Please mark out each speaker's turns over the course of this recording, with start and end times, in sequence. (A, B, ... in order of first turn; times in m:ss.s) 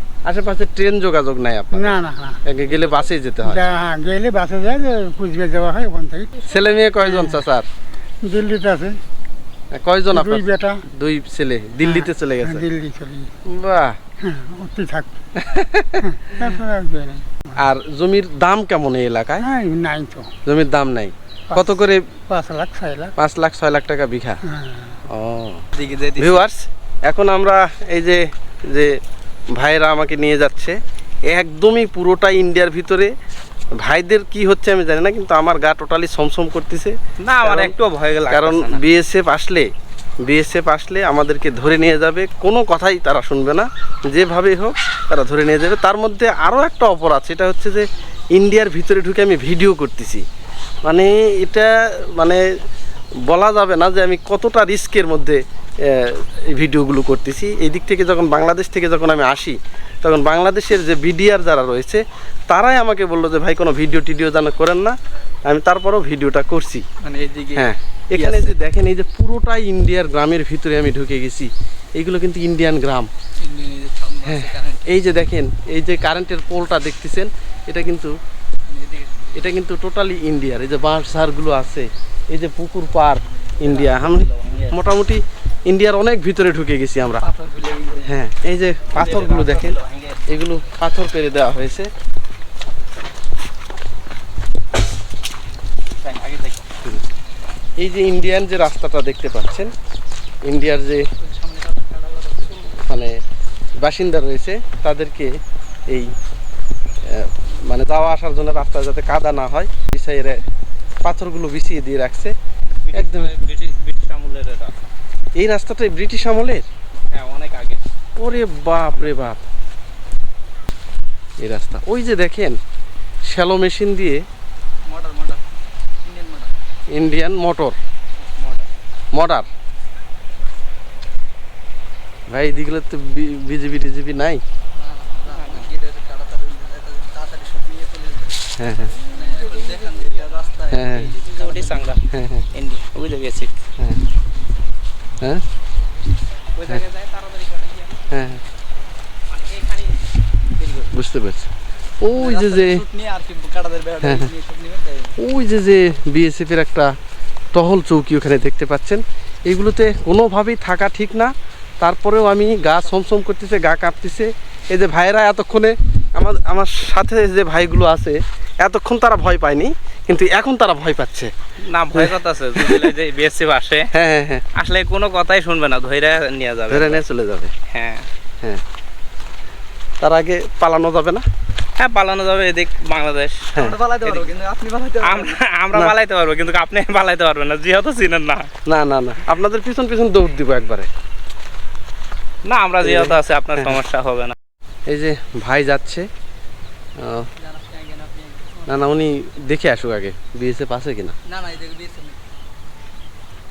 0:00.3-0:03.6 A
0:01.7-0:02.4 B
0:03.4-0:07.4 B
0:06.4-0:07.7 A
0:08.3-0:09.0 B
0:09.8-0:12.7 A
0:10.1-0:10.8 B
0:11.8-0:13.3 B
0:13.5-0:14.0 A
0:14.2-0:15.2 B
0:15.4-0:16.1 A
0:16.0-0:17.6 B
0:17.6-0:19.5 A
0:19.4-0:20.3 B
0:20.5-0:22.0 A
0:22.3-0:23.1 B
0:23.2-0:24.4 A
0:24.4-0:25.0 B
0:25.1-0:25.6 A
0:25.7-0:26.5 C
0:26.2-0:28.9 A
0:29.6-0:33.1 A
0:33.8-0:37.7 A
0:37.2-0:38.8 C
0:38.3-0:39.7 A
0:40.3-0:50.2 A
0:50.8-0:52.4 A
0:53.3-1:05.0 A
1:05.5-1:06.9 A
1:07.0-1:08.6 D
1:07.5-1:13.1 A
1:13.4-1:15.0 D
1:14.2-1:18.1 A
1:18.7-1:19.5 D
1:19.3-1:27.2 A
1:23.6-1:24.1 D
1:24.1-1:24.7 C
1:27.2-1:28.2 D
1:28.1-1:31.9 A
1:28.9-1:30.3 C
1:36.0-1:36.7 C
1:37.8-1:39.7 A
1:40.4-1:41.0 A
1:41.2-1:42.6 D
1:42.7-1:43.1 A
1:43.8-1:45.3 A
1:45.9-1:46.1 A
1:47.0-1:50.4 A
1:51.0-1:52.3 A
1:52.8-1:54.8 C
1:52.9-1:53.3 A
1:55.4-1:56.7 A
1:57.1-1:57.8 C
1:58.2-1:59.4 A
2:01.4-2:02.6 A
2:03.3-2:04.2 A
2:04.9-2:05.4 D
2:06.0-2:06.6 D
2:06.9-2:07.8 A
2:08.4-2:08.7 C
2:09.1-2:09.5 A
2:12.3-2:14.4 A
2:14.7-2:21.9 D
2:15.3-2:15.7 C
2:18.6-2:18.9 A
2:19.0-2:23.6 C
2:20.7-2:21.1 A
2:22.1-2:22.5 A
2:26.6-2:28.1 C
2:28.1-2:28.4 A
2:29.3-2:30.0 C
2:30.6-2:30.9 C
2:30.9-2:31.5 A
2:32.0-2:32.8 A
2:32.1-2:35.2 D
2:34.0-2:34.3 A
2:35.2-2:36.9 A
2:37.5-2:51.3 A
2:51.7-2:53.9 C
2:51.9-2:52.9 A
2:53.9-2:54.4 A
2:54.5-2:57.0 C
2:56.7-2:57.5 A
2:57.7-2:58.1 C
3:00.0-3:01.2 A
3:01.8-3:04.3 C
3:03.6-3:05.4 D
3:05.0-3:08.5 C
3:08.7-3:10.9 A
3:12.4-3:14.4 C
3:12.8-3:13.8 A
3:14.9-3:16.1 A
3:17.0-3:17.3 A
3:17.4-3:18.8 D
3:18.7-3:21.2 A
3:21.3-3:22.2 D